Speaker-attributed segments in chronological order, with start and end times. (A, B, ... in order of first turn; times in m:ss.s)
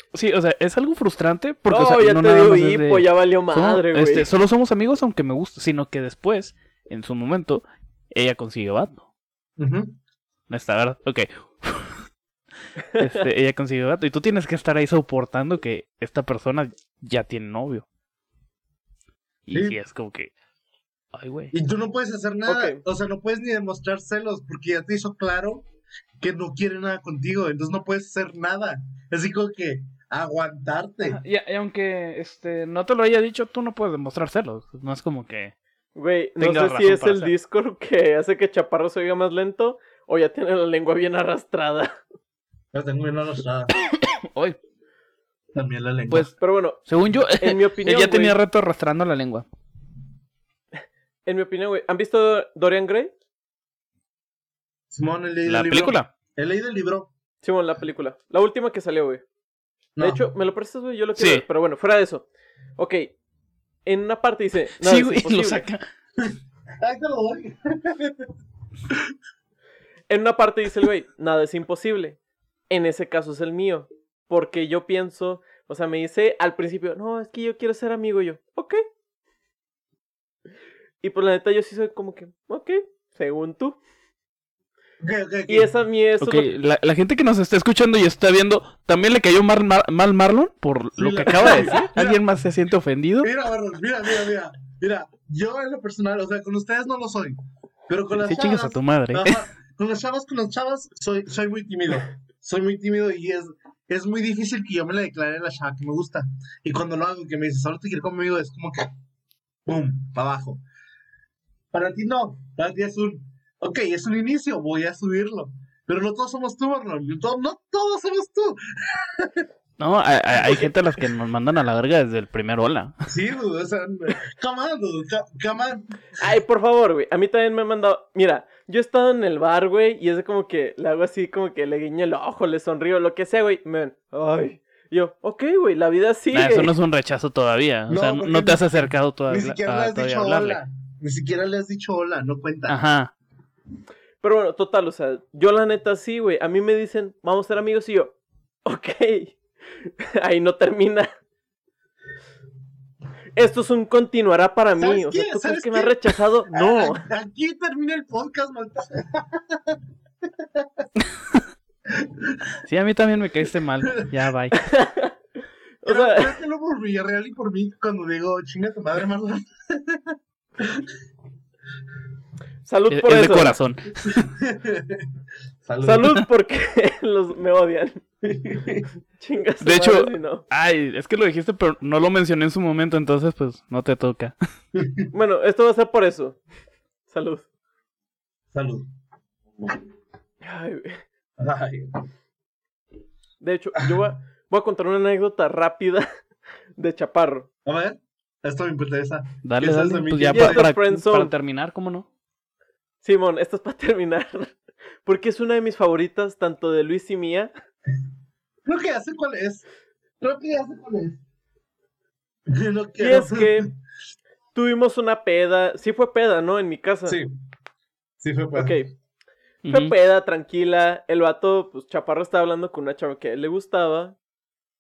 0:00.1-0:09.1 A
0:01.7-0:04.3 B
0:09.6-0:10.0 C
0:10.5-0:12.0 A
0:13.0-0:13.2 B
0:13.0-0:17.8 A
0:19.5-0:20.3 A
0:19.5-0:19.8 C
0:21.1-0:21.5 A
0:21.5-0:25.7 C
0:22.5-0:22.8 B
0:26.2-0:31.2 C
0:31.0-0:35.5 A
0:36.0-0:42.0 B
0:36.4-0:37.3 A
0:42.7-0:43.7 C
0:44.0-0:44.6 A
0:45.5-0:46.3 C
0:46.4-0:46.8 B
0:46.9-0:49.5 A
0:47.4-0:48.4 B
0:51.3-0:53.1 B
0:54.9-0:57.1 C
0:55.5-0:56.1 A
0:57.4-0:59.2 B
1:00.0-1:00.2 C
1:00.0-1:02.3 B
1:01.2-1:01.4 A
1:02.8-1:03.1 B
1:03.9-1:05.7 B
1:04.8-1:05.8 A
1:06.2-1:08.3 C
1:10.1-1:12.2 B
1:12.7-1:18.8 B
1:21.0-1:23.8 B
1:25.0-1:25.7 C
1:25.5-1:26.5 B
1:26.2-1:33.3 A
1:31.0-1:32.2 C
1:31.4-1:31.7 B
1:33.2-1:48.9 C
1:38.2-1:39.4 A
1:49.7-1:50.6 C
1:51.7-1:59.5 C
1:59.8-2:03.0 A
2:03.1-2:06.3 C
2:06.2-2:16.7 B
2:16.3-2:20.6 A
2:17.9-2:18.7 C
2:19.3-2:22.8 C
2:22.7-2:23.1 A
2:24.2-2:31.1 B
2:33.4-2:37.0 B
2:34.8-2:40.9 C
2:41.9-2:42.6 C
2:42.7-2:44.6 A
2:44.6-2:45.1 B
2:45.8-2:46.4 B
2:45.9-2:50.9 C
2:52.7-2:53.6 B
2:52.9-2:54.3 A
2:54.1-2:55.1 C
2:55.6-2:56.2 C
2:55.8-2:58.0 B
2:58.2-2:58.9 C
2:59.2-3:00.4 B
2:59.6-3:04.4 A
3:04.7-3:05.1 C
3:05.1-3:06.4 B
3:07.1-3:07.4 B
3:08.5-3:08.9 C
3:10.4-3:11.0 B
3:11.4-3:12.0 C
3:13.4-3:16.0 B
3:16.8-3:17.5 B
3:17.7-3:20.6 C
3:19.4-3:22.1 A
3:20.3-3:21.3 B
3:23.0-3:27.5 B
3:28.6-3:29.6 C
3:30.2-3:31.2 C
3:32.5-3:33.7 C
3:33.0-3:33.7 B
3:34.6-3:37.2 B
3:37.1-3:37.3 C
3:38.2-3:38.8 C
3:38.6-3:38.8 B
3:39.6-3:39.9 A
3:39.7-3:44.2 B